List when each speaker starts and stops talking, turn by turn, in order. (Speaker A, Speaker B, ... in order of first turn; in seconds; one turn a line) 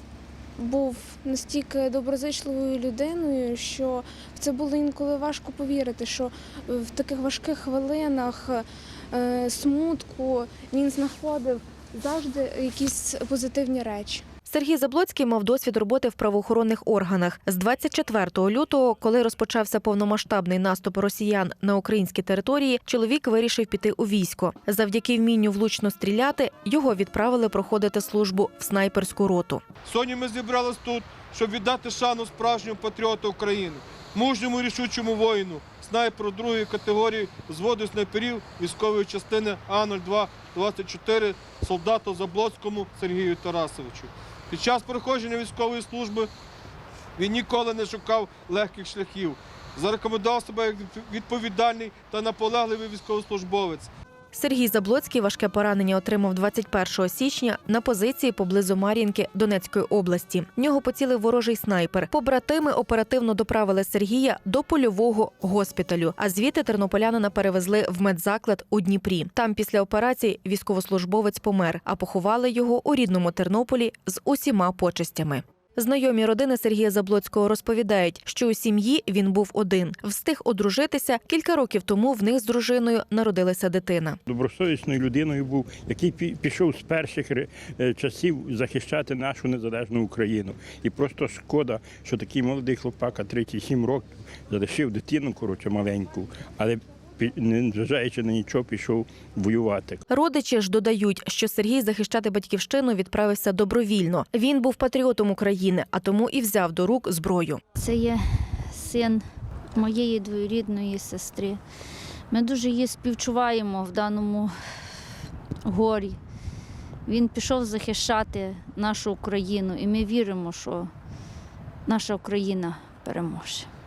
Speaker A: 0.6-14.2
Speaker B: 14.5-29.6
Speaker C: 29.9-40.8
Speaker A: 31.0-32.1
Speaker A: 37.0-37.4
Speaker A: 38.1-38.6
Speaker A: 39.1-43.1
Speaker C: 41.5-43.9
Speaker A: 43.9-46.3
Speaker C: 44.5-46.2
Speaker C: 47.2-53.9
Speaker A: 47.9-48.4
Speaker B: 54.3-84.2
Speaker D: 84.3-100.0
Speaker B: 100.1-107.6
Speaker E: 107.8-109.2
Speaker E: 109.7-111.6
Speaker E: 112.3-114.5
Speaker E: 115.7-116.2
Speaker E: 117.0-120.9
Speaker E: 121.9-123.7